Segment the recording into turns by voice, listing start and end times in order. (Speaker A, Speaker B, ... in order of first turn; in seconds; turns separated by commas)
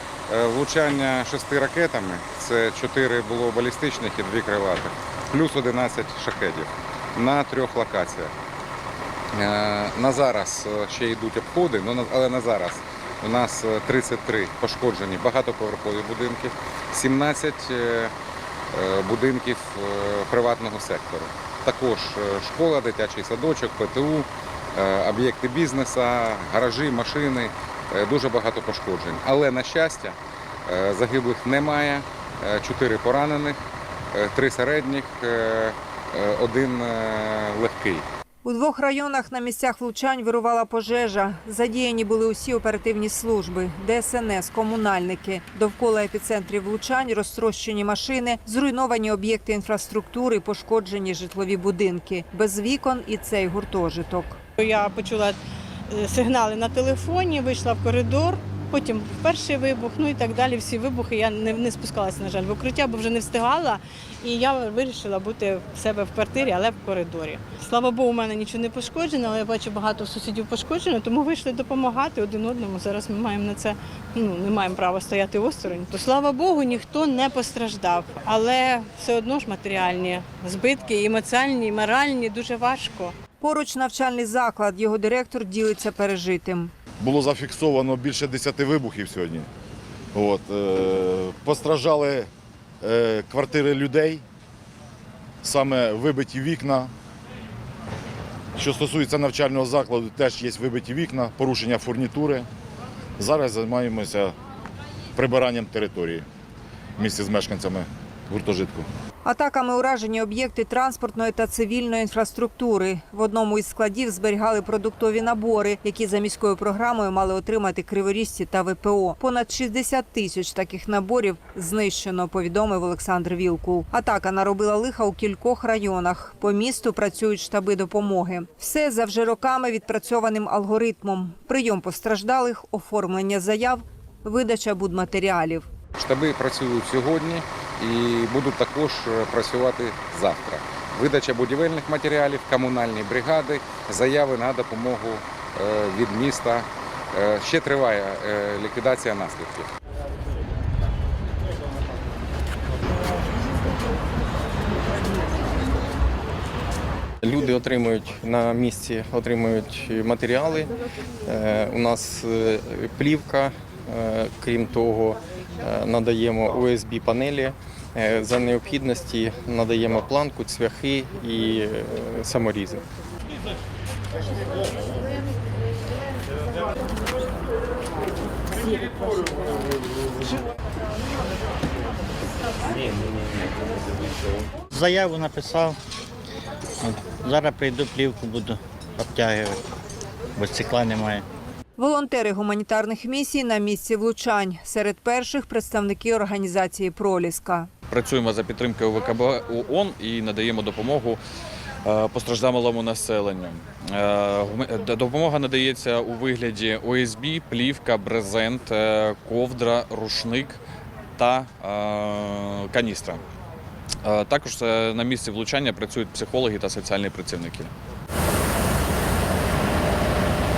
Speaker A: 0.3-8.3, Speaker A: 9.3-18.1, Speaker A: 18.7-30.1, Speaker A: 30.7-33.6, Speaker A: 34.1-38.0, Speaker B: 38.4-54.4, Speaker C: 54.6-55.4, Speaker C: 55.9-83.1, Speaker B: 83.4-86.7, Speaker D: 87.0-89.5, Speaker D: 90.1-92.3, Speaker D: 92.8-94.2, Speaker D: 95.4-96.9, Speaker D: 98.5-102.5, Speaker D: 103.2-104.3, Speaker D: 105.1-106.2, Speaker D: 107.0-108.8, Speaker B: 109.2-135.7, Speaker A: 136.0-149.7, Speaker E: 157.2-160.7, Speaker E: 161.2-172.8, Speaker F: 184.7-185.8, Speaker F: 186.8-189.6, Speaker F: 190.3-191.2, Speaker B: 191.8-197.7, Speaker G: 197.9-201.2, Speaker G: 201.8-210.6, Speaker G: 211.2-213.2, Speaker G: 214.0-217.7